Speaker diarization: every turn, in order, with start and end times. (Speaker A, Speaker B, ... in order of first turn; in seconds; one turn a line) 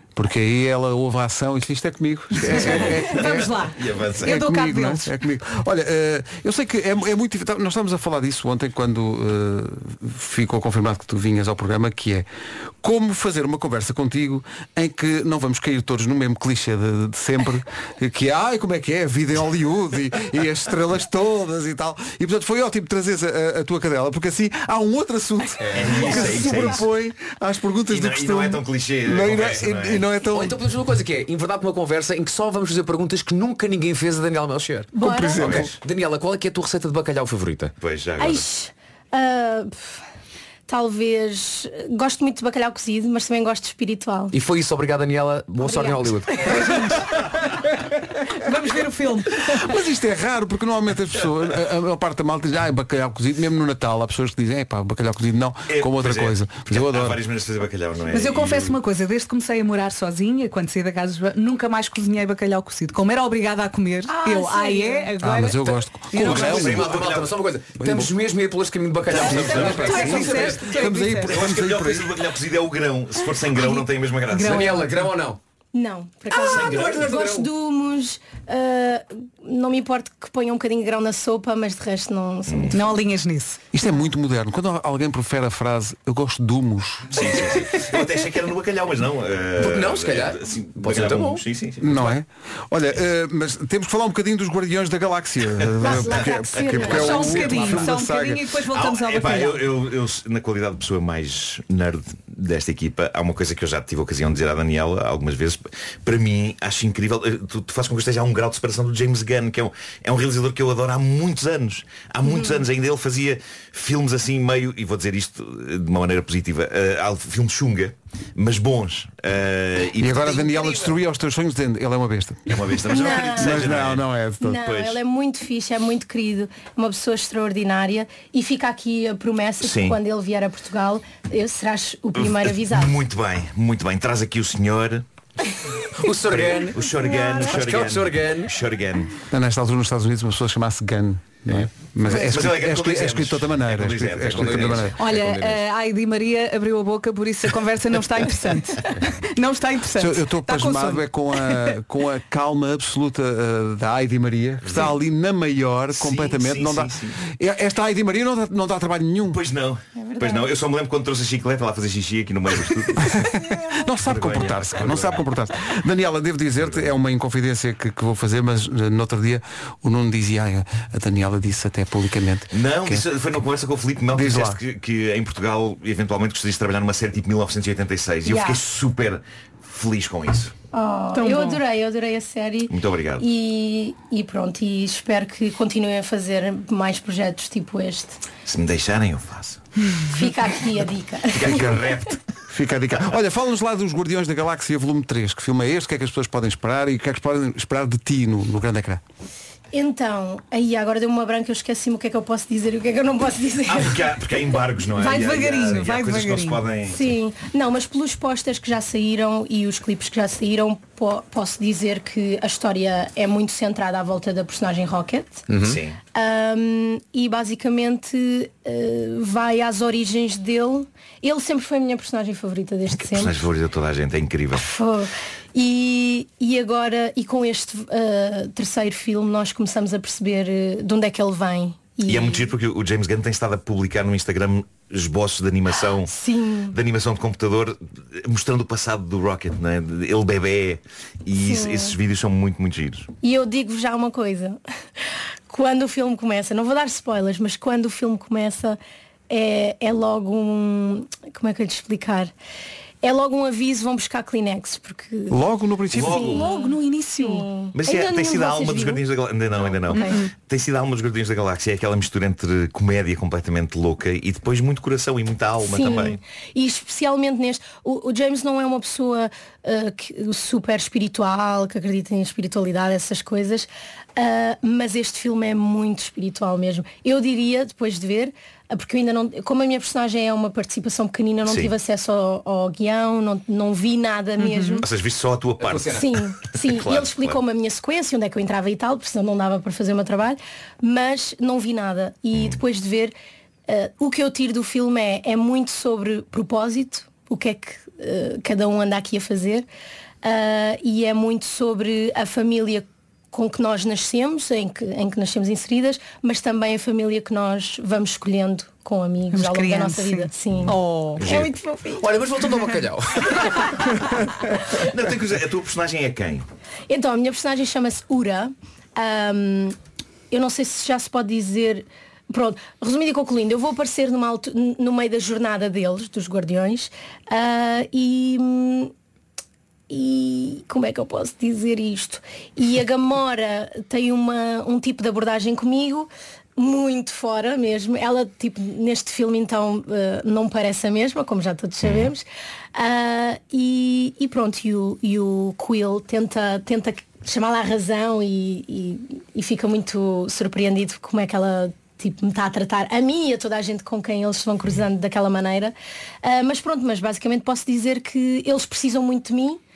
Speaker A: 0.1-3.6
Speaker B: 2.5-4.4
Speaker C: 3.1-5.1
Speaker A: 4.2-12.2
Speaker A: 12.8-30.6
Speaker D: 25.6-26.4
Speaker B: 25.7-26.9
Speaker B: 27.9-30.1
Speaker D: 30.3-34.9
Speaker E: 35.0-35.5
Speaker A: 35.0-35.7
Speaker B: 35.4-35.7
Speaker D: 35.5-37.7
Speaker B: 37.8-38.4
Speaker E: 38.2-39.9
Speaker E: 40.7-44.3
Speaker D: 44.3-46.5
Speaker E: 45.6-46.0
Speaker C: 48.4-49.6
Speaker A: 49.5-57.2
Speaker B: 55.7-58.8
Speaker C: 58.1-66.4
Speaker E: 64.1-65.1
Speaker A: 65.2-67.0
Speaker B: 66.1-67.4
Speaker D: 66.3-70.7
Speaker A: 67.8-68.1
Speaker B: 69.1-70.1
Speaker A: 69.2-72.1
Speaker C: 69.2-71.4
Speaker B: 71.2-74.8
Speaker C: 74.3-74.8
Speaker D: 74.4-75.4
Speaker E: 75.7-82.8
Speaker D: 76.4-77.5
Speaker B: 76.4-77.1
Speaker C: 82.7-83.6
Speaker A: 83.7-87.4
Speaker B: 87.1-92.2
Speaker D: 89.6-91.4
Speaker A: 91.8-98.4
Speaker B: 95.6-97.7
Speaker E: 95.8-97.3
Speaker C: 96.8-99.7
Speaker B: 98.7-120.9
Speaker E: 112.3-112.6
Speaker A: 120.0-122.6
Speaker B: 122.5-125.0
Speaker E: 122.9-123.7
Speaker A: 123.2-124.6
Speaker E: 124.4-132.9
Speaker B: 129.6-130.0
Speaker B: 132.2-135.1
Speaker D: 136.0-138.5
Speaker B: 136.1-139.1
Speaker A: 139.3-144.9
Speaker B: 142.1-144.9
Speaker D: 144.3-145.6
Speaker C: 145.0-151.6
Speaker A: 150.0-159.4
Speaker B: 155.9-157.2
Speaker B: 159.3-163.2
Speaker E: 160.2-160.4
Speaker A: 163.0-173.0
Speaker B: 163.9-165.2
Speaker B: 166.6-166.9
Speaker B: 172.5-180.5
Speaker A: 174.1-174.6
Speaker E: 178.2-178.6
Speaker E: 180.7-188.2
Speaker C: 181.1-181.6
Speaker B: 182.7-183.2
Speaker B: 188.4-189.6
Speaker E: 190.1-191.9
Speaker B: 191.3-192.2
Speaker A: 191.4-191.9
Speaker A: 192.5-199.0
Speaker E: 199.7-204.0
Speaker B: 203.7-207.1
Speaker C: 205.0-206.6
Speaker E: 206.9-215.5
Speaker D: 215.5-215.8
Speaker B: 215.6-216.0
Speaker E: 216.1-223.4
Speaker B: 222.9-224.6
Speaker E: 224.5-232.5
Speaker B: 232.1-236.1
Speaker E: 236.1-236.8
Speaker B: 236.7-243.1
Speaker E: 241.4-241.9
Speaker E: 243.2-244.6
Speaker E: 245.5-252.3
Speaker E: 253.0-255.4
Speaker A: 255.3-256.3
Speaker B: 255.9-256.4
Speaker E: 256.0-259.0
Speaker C: 256.1-257.5
Speaker B: 257.7-266.2
Speaker E: 259.9-260.2
Speaker C: 259.9-260.3
Speaker E: 265.6-284.8
Speaker B: 281.4-281.7
Speaker C: 284.4-284.8
Speaker B: 284.8-287.4
Speaker D: 285.6-286.1
Speaker E: 286.0-293.1
Speaker E: 293.7-299.7
Speaker E: 300.2-312.1
Speaker C: 309.3-311.2
Speaker D: 311.2-311.5
Speaker D: 312.0-313.7
Speaker B: 314.8-316.4
Speaker E: 316.9-319.7
Speaker E: 320.3-328.9
Speaker E: 329.9-359.6